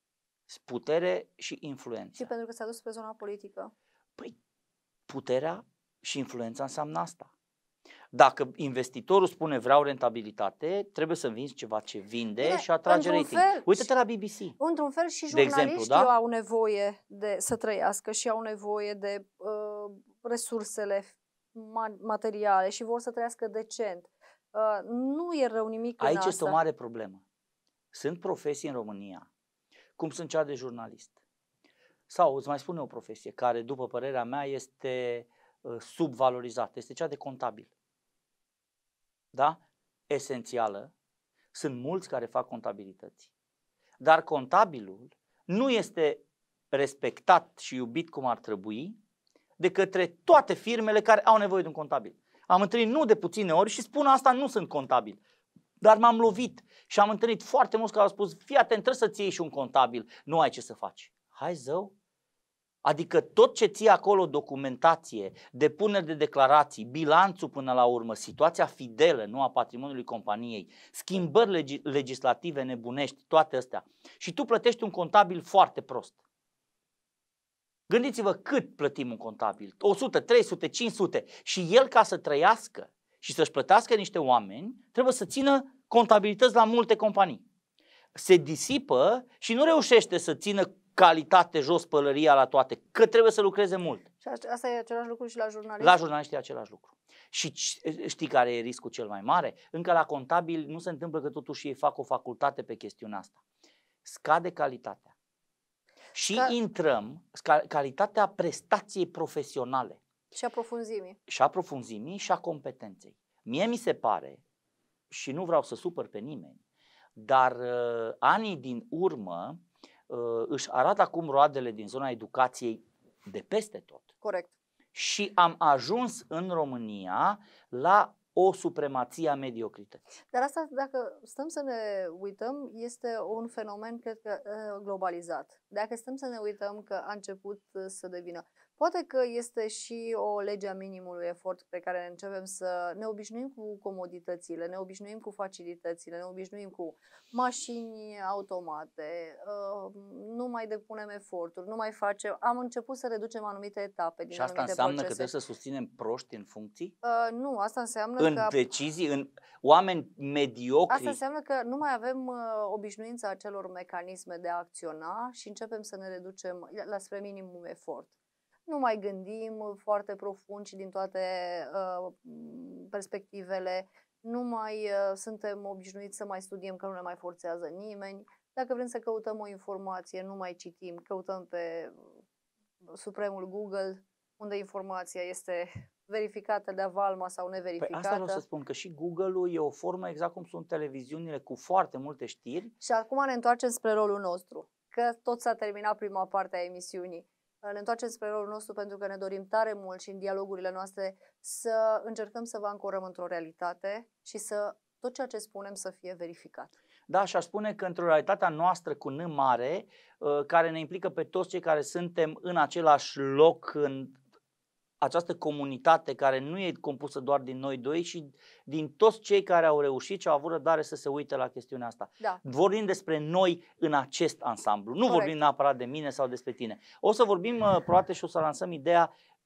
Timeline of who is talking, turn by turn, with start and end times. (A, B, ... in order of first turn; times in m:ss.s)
0:00.5-0:02.3 A
0:02.1-0:03.7 B
0:05.1-0:07.3 A
0:08.1-0:14.6 A
0:12.4-0:13.9 B
0:14.6-0:26.6 B
0:15.3-0:16.1 A
0:26.0-0:27.2 A
0:27.9-0:29.3 A
0:30.0-0:31.2 A
0:32.1-0:37.7 A
0:39.3-0:40.9 A
0:41.5-0:43.3 A
0:44.0-0:48.9 A
0:49.6-0:55.2 A
0:55.8-1:01.9 A
1:02.8-1:16.2 A
1:17.9-1:27.4 A
1:28.1-1:34.0 A
1:34.2-1:36.0 B
1:35.8-1:43.4 A
1:44.0-1:45.1 A
1:46.1-1:50.0 A
1:50.3-1:51.2 B
1:51.3-1:54.4 A
1:55.1-1:56.6 A
1:57.2-2:04.1 A
2:04.2-2:04.5 B
2:04.9-2:10.0 A
2:10.3-2:35.3 B
2:34.3-2:36.9 A
2:37.0-2:38.6 B
2:38.2-2:41.2 A
2:40.9-2:48.1 B
2:48.7-3:02.1 B
3:02.9-3:08.4 B
3:07.8-3:12.7 A
3:12.8-3:26.7 B
3:27.1-3:34.2 A
3:35.0-3:49.1 A
3:45.0-3:45.3 B